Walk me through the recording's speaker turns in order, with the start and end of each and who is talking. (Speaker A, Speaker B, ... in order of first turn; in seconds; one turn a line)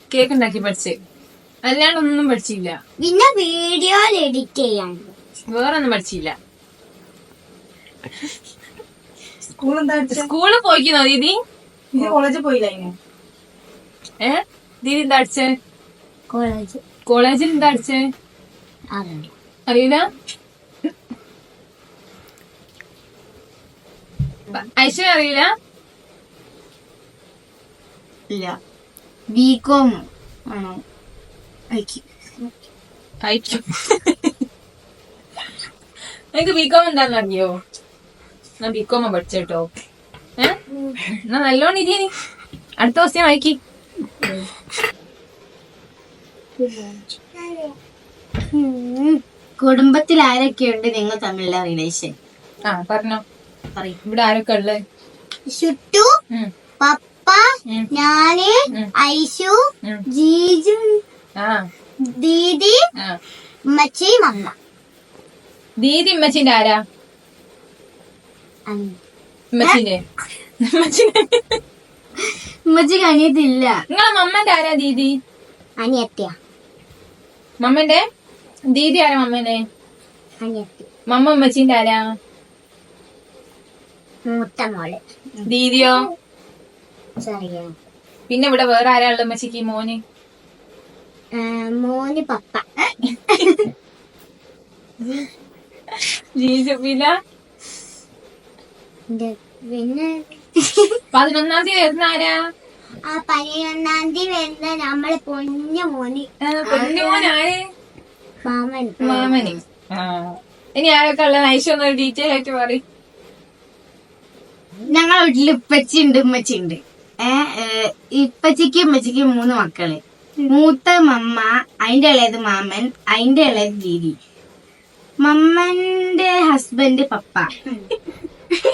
Speaker A: 0.1-1.0
Speaker A: 1.7-2.8
Speaker B: 3.0-5.2
Speaker A: 5.5-6.3
Speaker C: 9.6-10.3
Speaker A: 10.1-11.4
Speaker C: 12.0-12.9
Speaker A: 12.0-12.4
Speaker A: 14.2-15.5
Speaker B: 16.3-16.8
Speaker A: 17.1-18.0
Speaker B: 18.9-19.3
Speaker A: 19.7-20.1
Speaker A: 24.5-25.5
Speaker C: 28.3-28.6
Speaker C: 29.3-30.8
Speaker C: 31.7-32.0
Speaker A: 33.2-34.3
Speaker A: 36.3-37.6
Speaker A: 38.6-39.7
Speaker B: 40.7-41.0
Speaker A: 41.2-42.1
Speaker A: 42.8-43.6
Speaker B: 46.6-47.8
Speaker B: 48.5-49.2
Speaker C: 49.6-52.1
Speaker A: 52.7-53.2
Speaker A: 54.0-54.8
Speaker B: 55.5-56.1
Speaker B: 56.8-61.0
Speaker A: 61.4-61.6
Speaker B: 62.0-62.8
Speaker B: 63.7-64.5
Speaker A: 65.8-66.8
Speaker B: 68.7-69.0
Speaker A: 69.5-70.0
Speaker A: 70.6-71.6
Speaker C: 72.2-73.8
Speaker A: 73.9-75.2
Speaker B: 75.8-76.4
Speaker A: 77.6-78.0
Speaker A: 78.7-79.6
Speaker B: 80.4-80.9
Speaker A: 81.1-82.0
Speaker B: 84.3-85.0
Speaker A: 85.5-86.0
Speaker B: 87.2-87.7
Speaker A: 88.3-90.0
Speaker B: 91.3-92.6
Speaker C: 93.3-93.6
Speaker A: 95.9-97.1
Speaker B: 99.1-101.0
Speaker A: 101.1-102.4
Speaker B: 103.1-106.3
Speaker A: 106.4-107.6
Speaker C: 106.7-107.3
Speaker B: 108.4-109.5
Speaker A: 109.0-112.8
Speaker C: 109.1-109.5
Speaker C: 114.9-124.2
Speaker C: 125.2-127.6